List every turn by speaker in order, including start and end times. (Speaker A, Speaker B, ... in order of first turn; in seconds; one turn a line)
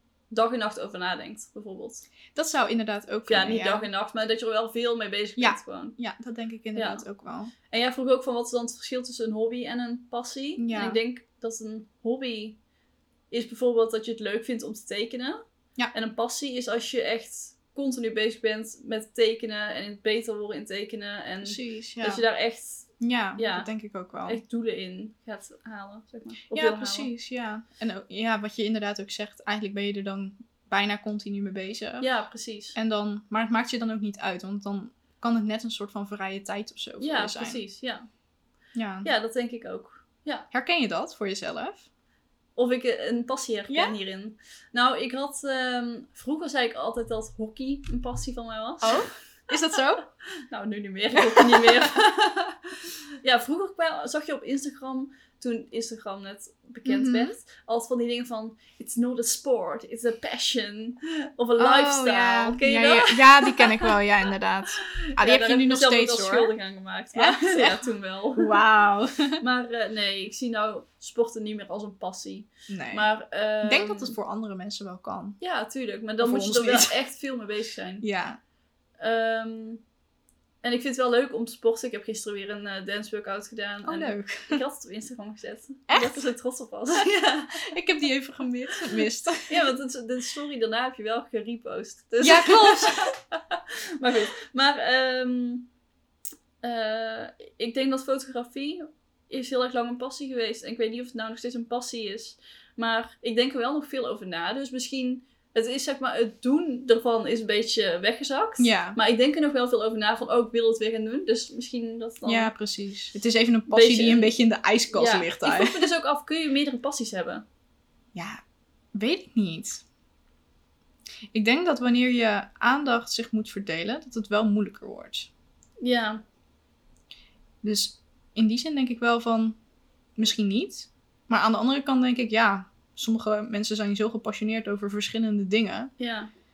Speaker A: 0.3-2.1
Speaker B: 2.3-3.9
Speaker A: 3.3-6.0
Speaker B: 5.4-7.5
Speaker A: 6.7-7.0
Speaker A: 7.7-12.6
Speaker B: 10.6-11.0
Speaker A: 13.3-15.4
Speaker A: 15.9-23.7
Speaker B: 21.4-22.2
Speaker B: 23.0-24.4
Speaker A: 24.2-27.1
Speaker B: 26.5-32.1
Speaker A: 32.0-32.8
Speaker B: 32.7-37.6
Speaker A: 37.0-38.1
Speaker B: 38.7-39.1
Speaker A: 39.0-40.5
Speaker B: 40.5-41.9
Speaker A: 42.5-49.0
Speaker B: 43.7-44.0
Speaker B: 48.8-50.0
Speaker A: 50.5-64.0
Speaker B: 51.2-51.9
Speaker B: 56.8-57.3
Speaker B: 61.6-66.5
Speaker A: 64.8-68.5
Speaker B: 67.1-67.8
Speaker B: 68.4-69.4
Speaker A: 69.4-74.2
Speaker B: 72.7-73.1
Speaker B: 73.6-75.4
Speaker A: 75.4-78.0
Speaker B: 76.2-77.0
Speaker B: 78.0-78.4
Speaker A: 79.0-79.8
Speaker A: 80.6-87.7
Speaker B: 83.8-84.6
Speaker B: 85.9-86.3
Speaker B: 87.5-89.7
Speaker A: 89.5-95.7
Speaker B: 92.2-93.1
Speaker A: 96.6-112.5
Speaker B: 108.6-109.0
Speaker B: 112.2-115.8
Speaker A: 113.7-114.3
Speaker A: 114.9-117.4
Speaker B: 118.1-118.4
Speaker B: 118.9-119.8
Speaker B: 121.3-125.3
Speaker A: 125.8-126.2
Speaker B: 127.6-129.6
Speaker B: 130.2-135.9
Speaker A: 136.0-136.3